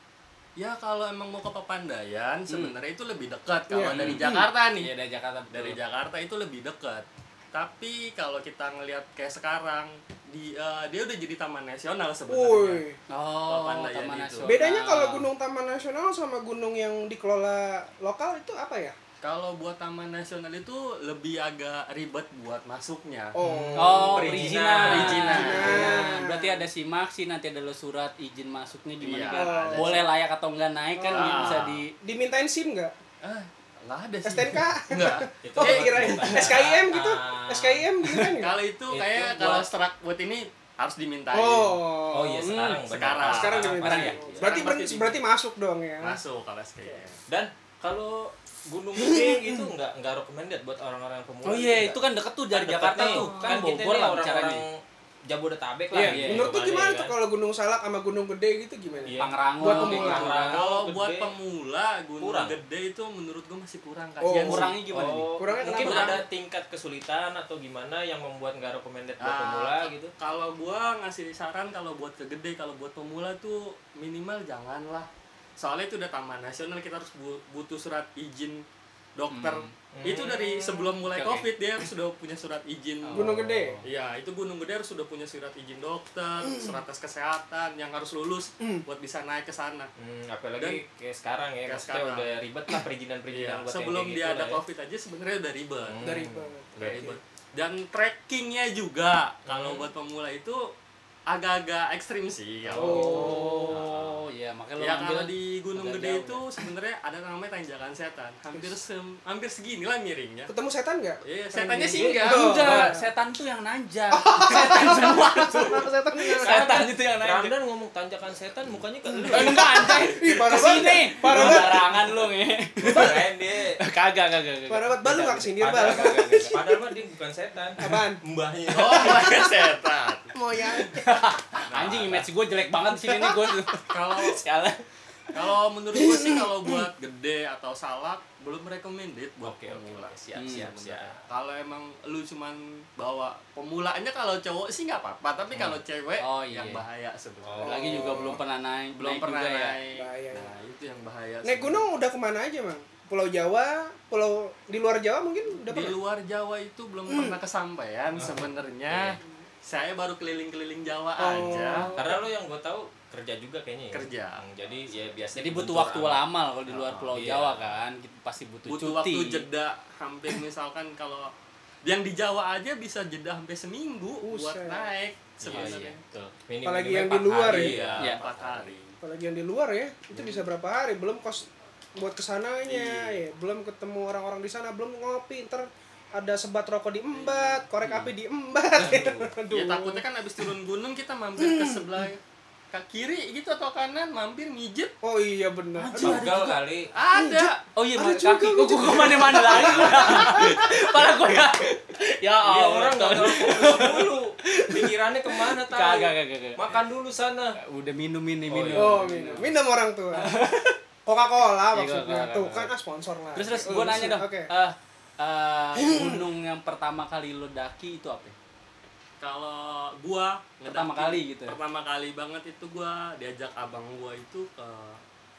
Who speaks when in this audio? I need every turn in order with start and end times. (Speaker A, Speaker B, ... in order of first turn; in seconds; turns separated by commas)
Speaker A: 0.6-4.9, Speaker B: 2.5-2.7, Speaker C: 3.7-4.4, Speaker B: 3.9-5.8, Speaker A: 5.5-12.8, Speaker C: 12.3-13.0, Speaker B: 13.1-15.3, Speaker A: 13.5-14.5, Speaker C: 14.4-18.9, Speaker A: 19.2-23.4, Speaker C: 23.3-24.4, Speaker D: 23.4-25.9, Speaker B: 23.8-31.9, Speaker A: 24.2-25.9, Speaker C: 24.9-26.6, Speaker A: 29.0-30.0, Speaker C: 29.3-30.0, Speaker C: 31.0-32.9, Speaker A: 31.1-31.8, Speaker A: 33.2-36.5, Speaker C: 34.2-38.5, Speaker D: 35.4-37.9, Speaker B: 38.0-38.3, Speaker A: 38.4-41.8, Speaker D: 38.9-39.7, Speaker C: 41.3-42.5, Speaker D: 42.1-44.7, Speaker B: 42.4-42.8, Speaker A: 42.9-45.2, Speaker C: 43.2-46.2, Speaker B: 43.8-44.2, Speaker A: 46.0-47.2, Speaker D: 47.3-57.1, Speaker C: 49.0-49.7, Speaker B: 51.4-54.6, Speaker A: 53.0-53.6, Speaker C: 55.9-60.3, Speaker B: 55.9-56.5, Speaker D: 59.0-61.3, Speaker B: 59.2-60.6, Speaker A: 60.0-65.1, Speaker D: 62.2-62.6, Speaker C: 64.2-64.7, Speaker B: 64.4-66.2, Speaker D: 64.9-70.1, Speaker C: 65.4-66.2, Speaker A: 65.8-66.1, Speaker A: 69.2-78.6, Speaker A: 79.2-89.9, Speaker B: 79.3-79.7, Speaker D: 79.9-80.8, Speaker B: 81.1-81.5, Speaker B: 83.0-83.8, Speaker C: 83.1-83.8, Speaker C: 86.5-86.8, Speaker D: 90.0-94.6, Speaker A: 91.7-92.3, Speaker A: 93.3-96.0, Speaker D: 95.8-97.2, Speaker C: 96.0-97.2, Speaker A: 96.8-100.7, Speaker D: 99.5-99.9, Speaker A: 101.3-103.8, Speaker D: 102.6-104.1, Speaker B: 102.8-106.6, Speaker C: 102.8-103.7, Speaker A: 104.8-110.5, Speaker C: 110.5-113.0, Speaker A: 111.2-112.9, Speaker D: 111.9-112.2, Speaker B: 112.2-117.5, Speaker C: 114.1-116.7, Speaker D: 116.4-120.0, Speaker C: 119.1-121.9, Speaker B: 119.3-123.2, Speaker D: 121.3-121.7, Speaker D: 122.8-123.8, Speaker B: 123.8-126.5, Speaker C: 124.7-126.9, Speaker D: 125.6-129.4, Speaker C: 127.8-128.2, Speaker A: 128.7-130.3, Speaker C: 129.0-129.6, Speaker C: 130.3-131.2, Speaker B: 130.9-134.8, Speaker A: 131.7-132.3, Speaker C: 133.0-133.3, Speaker A: 133.9-134.4, Speaker A: 135.3-147.7, Speaker C: 135.9-136.8, Speaker D: 139.4-141.1, Speaker B: 140.3-140.7, Speaker D: 145.5-145.8, Speaker B: 146.2-146.8, Speaker D: 147.4-148.3, Speaker B: 147.6-149.8, Speaker C: 147.7-148.4, Speaker A: 149.0-151.8, Speaker C: 149.9-150.5, Speaker C: 151.4-156.0, Speaker A: 155.7-162.0, Speaker C: 157.1-157.4, Speaker D: 158.2-159.2, Speaker C: 161.2-162.2, Speaker D: 161.9-167.8, Speaker A: 163.9-164.4, Speaker B: 165.3-169.4, Speaker A: 168.7-171.3, Speaker A: 171.8-176.0, Speaker C: 174.2-174.9, Speaker D: 175.4-178.8, Speaker B: 175.5-176.0, Speaker C: 176.6-177.8, Speaker A: 177.4-178.9, Speaker C: 179.0-190.4, Speaker D: 180.1-180.4, Speaker D: 182.7-183.1, Speaker A: 187.2-187.6, Speaker B: 187.8-188.1, Speaker D: 188.8-189.3, Speaker A: 189.5-194.9, Speaker C: 191.4-192.0, Speaker C: 195.0-196.2, Speaker B: 195.8-196.6, Speaker D: 195.8-196.9, Speaker A: 196.9-197.6, Speaker C: 197.1-200.7, Speaker B: 197.7-206.6, Speaker D: 202.4-207.6, Speaker B: 207.6-209.5, Speaker D: 208.5-209.5, Speaker C: 208.7-210.4, Speaker B: 210.2-210.8, Speaker C: 211.1-214.5, Speaker B: 211.7-212.7, Speaker B: 213.3-218.3, Speaker C: 215.8-216.2, Speaker A: 219.2-225.0, Speaker B: 220.7-221.6